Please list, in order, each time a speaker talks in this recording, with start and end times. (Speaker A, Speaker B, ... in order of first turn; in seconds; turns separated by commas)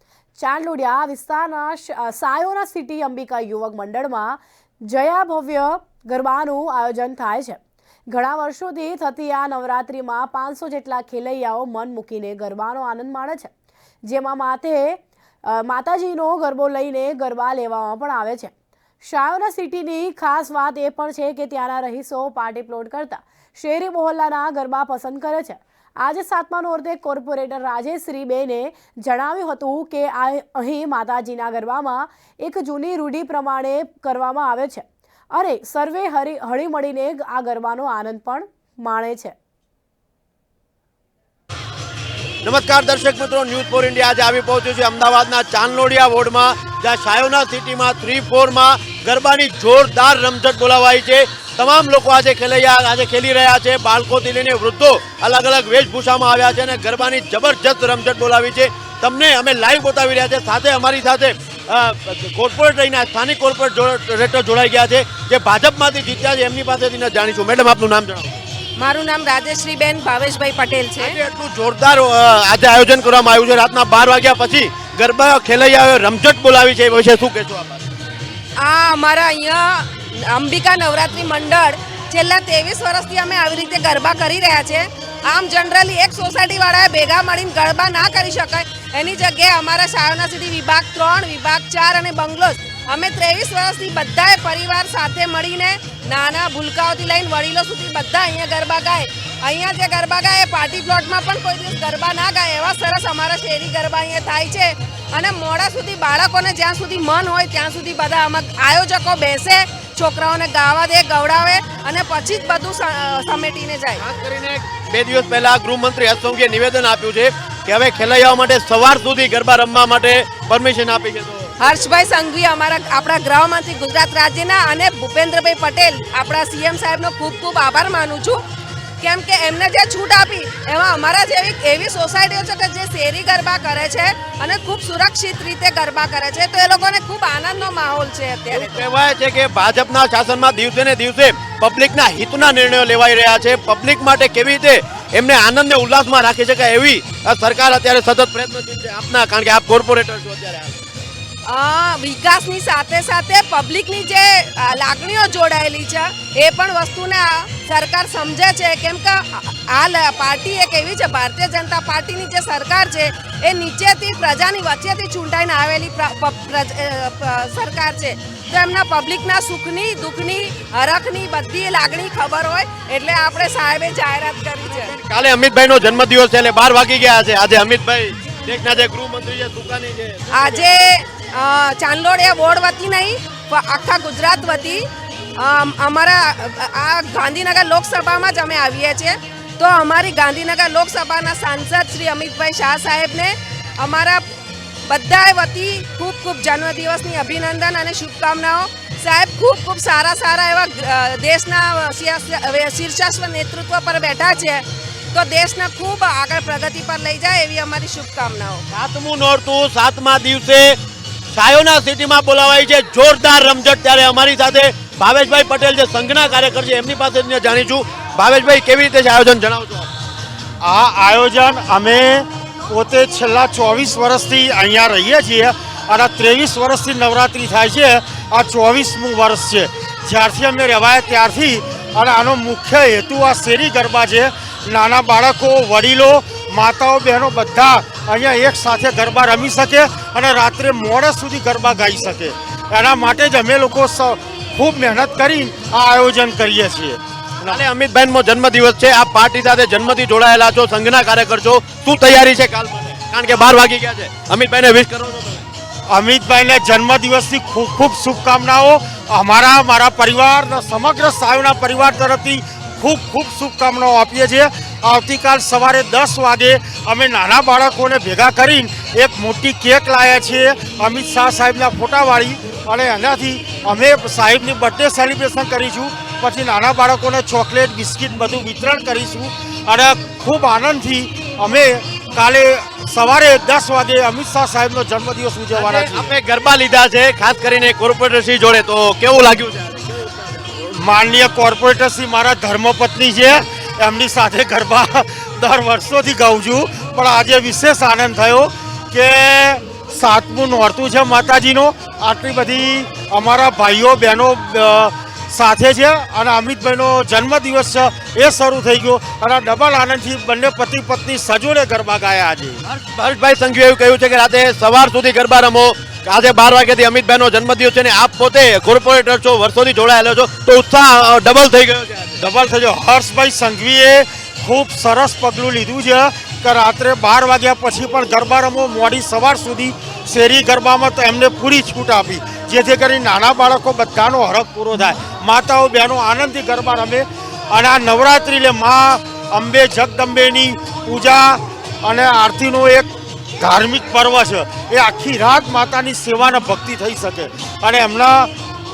Speaker A: 0.4-13.5, Speaker A: 14.0-39.3, Speaker B: 42.4-68.4, Speaker C: 68.8-71.2, Speaker B: 71.0-77.8, Speaker C: 78.6-114.0, Speaker B: 114.0-121.5, Speaker C: 121.6-128.4, Speaker C: 129.0-138.8, Speaker B: 138.5-150.8, Speaker C: 151.5-174.9, Speaker B: 174.7-180.7, Speaker C: 180.3-184.8, Speaker C: 185.4-194.2, Speaker C: 194.9-208.6, Speaker B: 208.7-210.8, Speaker B: 211.3-219.9, Speaker D: 220.6-247.6, Speaker B: 247.5-255.4, Speaker D: 255.9-286.1, Speaker B: 285.5-290.5, Speaker D: 290.6-312.6, Speaker B: 312.6-322.2, Speaker D: 322.2-348.3